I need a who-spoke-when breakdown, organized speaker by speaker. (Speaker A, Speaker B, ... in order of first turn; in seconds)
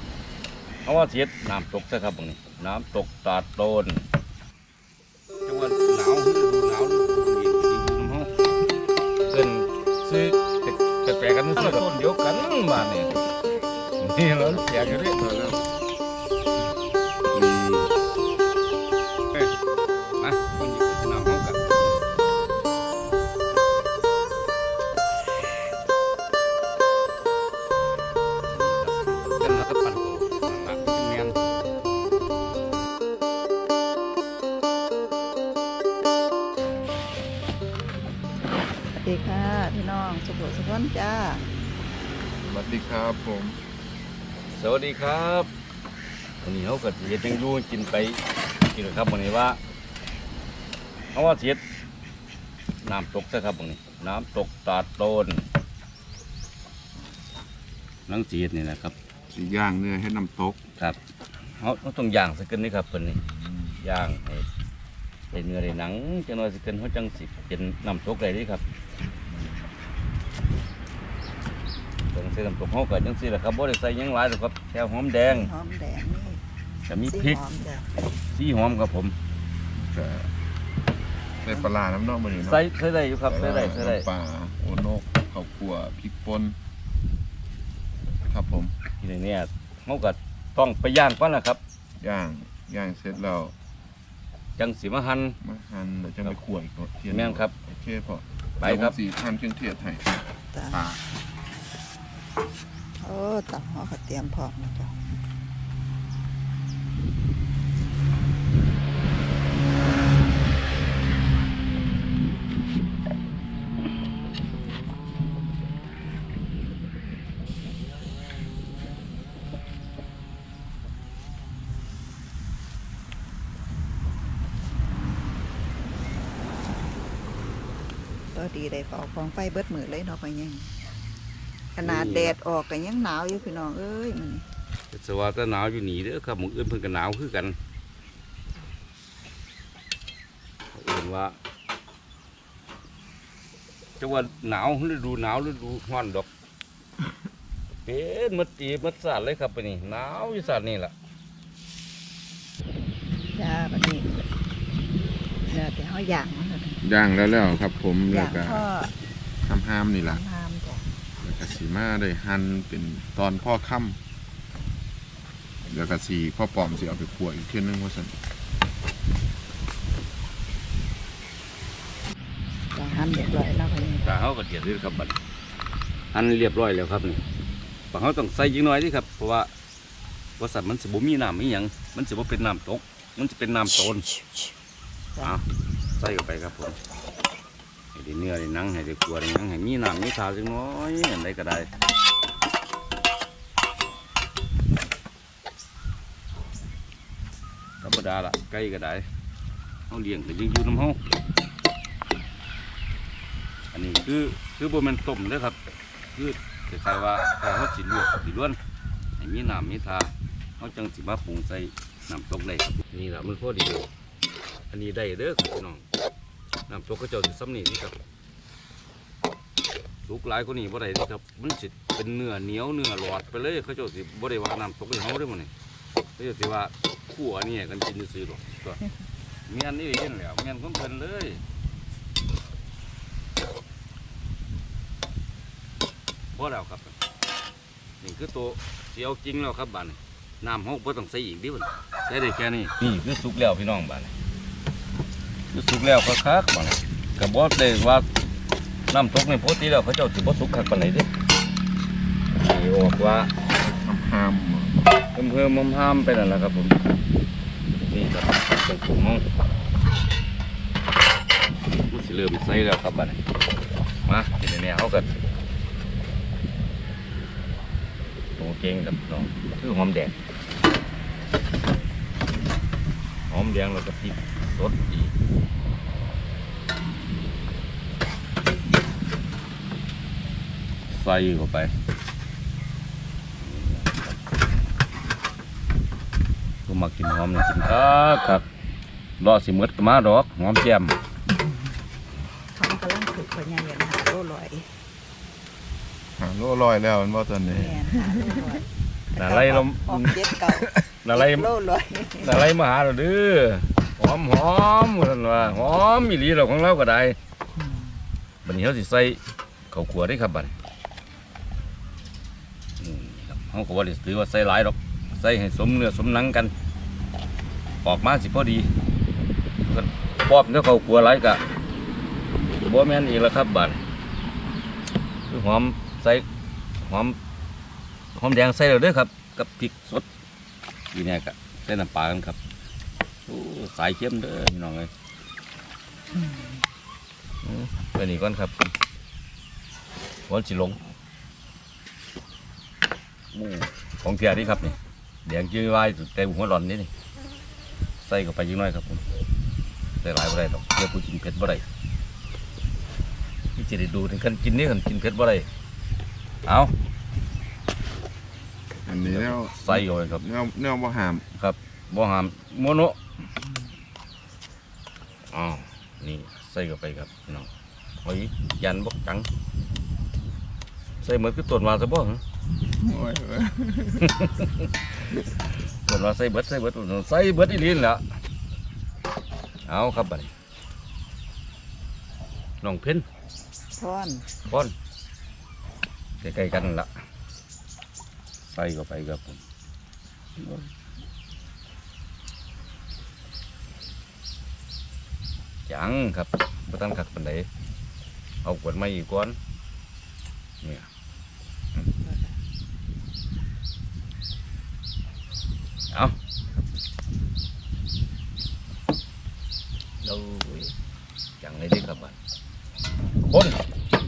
Speaker A: 0.8-4.0, 5.4-8.3, 9.3-13.2, 14.0-15.2, 20.2-21.8, 28.5-31.4, 44.5-45.5, 46.4-49.6, 51.1-51.6, 52.8-55.5, 58.1-59.0, 61.6-63.2, 63.8-64.5, 65.3-68.6, 72.1-75.5, 76.8-77.4, 78.3-79.2, 82.4-84.1, 89.0-91.6, 94.6-95.4, 97.1-97.5, 98.6-99.0, 131.8-132.3, 134.9-137.6, 140.7-141.4, 144.0-146.3, 147.8-150.9, 174.0-175.2, 176.1-177.2, 177.9-179.5, 180.4-184.1, 185.9-186.8, 187.9-191.7, 197.8-199.1, 199.9-201.0, 203.7-205.6, 206.1-208.6, 209.2-213.9, 214.7-215.8, 216.7-217.9, 220.0-225.5, 226.2-228.8, 229.5-231.4, 236.3-236.9, 238.0-244.1, 245.5-248.1, 248.9-251.1, 252.3-253.3, 255.1-256.8, 257.8-259.2, 261.8-263.2, 264.1-265.1, 268.4-270.1, 273.3-275.1, 280.9-281.7, 283.4-284.2, 286.6-288.4, 289.2-291.0, 299.2-301.5, 302.2-307.2, 308.4-309.2, 309.7-310.5, 312.8-316.5, 317.8-318.7, 319.6-321.4, 322.6-323.8, 325.3-326.2, 326.8-327.2, 328.1-330.1, 330.9-332.4, 333.3-334.9, 337.4-338.7, 340.3-340.8, 343.3-346.9, 348.0-349.0, 350.0-351.6, 353.6-355.5, 356.4-356.7, 359.0-360.2, 361.3-363.0, 365.3-367.5, 368.0-369.3, 371.0-372.2, 374.0-374.7, 375.8-378.0, 379.6-380.3, 382.6-383.0, 384.5-384.7, 386.2-386.9, 388.5-389.4, 390.4-390.7, 395.7-397.5, 398.4-399.4, 400.6-400.9, 410.0-410.7, 411.4-412.2, 413.3-413.6
Speaker B: 14.4-15.6, 17.3-17.9, 42.4-43.6, 59.3-60.6, 63.3-63.8, 69.3-69.7, 79.8-80.3, 81.4-82.6, 83.2-86.6, 88.3-88.7, 92.0-93.5, 95.4-100.1, 100.7-101.0, 156.8-158.6, 159.4-160.2, 161.2-164.0, 165.7-168.1, 253.8-254.9, 296.2-298.2, 358.9-361.3, 372.7-374.1
Speaker C: 38.9-41.4, 75.2-76.4, 77.0-77.9, 100.5-100.8, 103.0-104.9, 128.3-130.7, 131.8-134.4, 153.3-154.2, 155.5-156.8, 158.1-158.9, 160.0-160.8, 172.7-174.1, 184.2-184.5, 292.5-294.7, 297.5-302.4, 383.7-384.3, 402.0-402.3